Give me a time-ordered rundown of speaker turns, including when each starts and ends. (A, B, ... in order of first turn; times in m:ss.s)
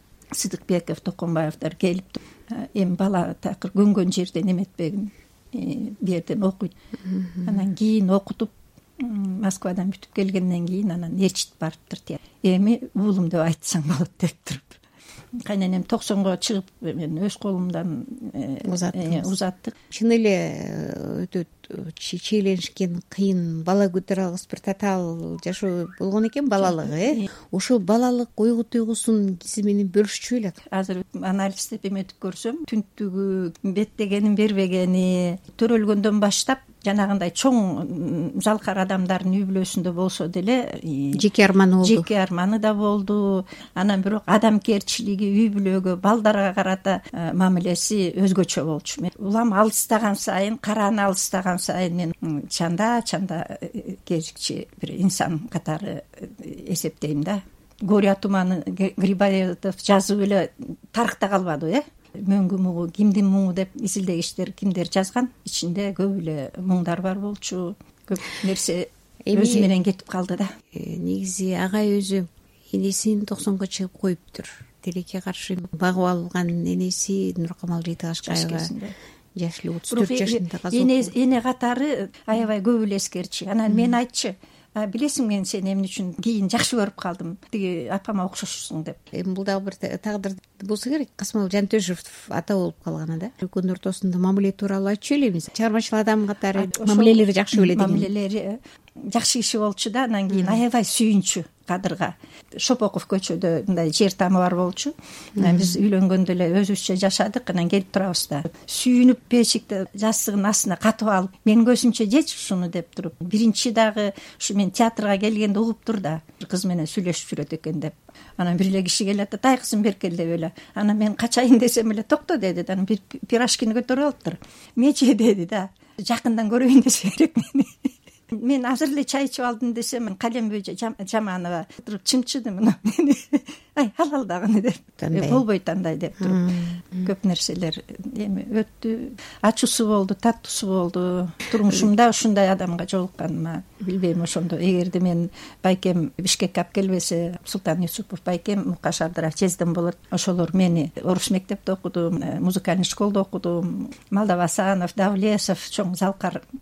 0:00.3-0:06.7 A
0:07.4-0:14.8 A
0:15.5-0:19.8 A
0:18.6-0:19.3 B
0:19.9-0:30.6 B
0:26.6-0:27.3 A
0:30.6-0:41.3 A
0:41.1-0:42.1 B
0:41.8-1:10.5 A
1:09.3-1:09.7 B
1:10.7-1:18.8 B
1:18.2-1:19.0 A
1:19.4-1:21.1 B
1:19.9-1:29.0 A
1:29.1-1:38.1 B
1:36.5-1:38.6 A
1:39.1-2:36.4 A
1:40.3-1:40.6 B
1:45.4-1:45.8 B
2:15.0-2:15.4 B
2:16.2-2:17.1 B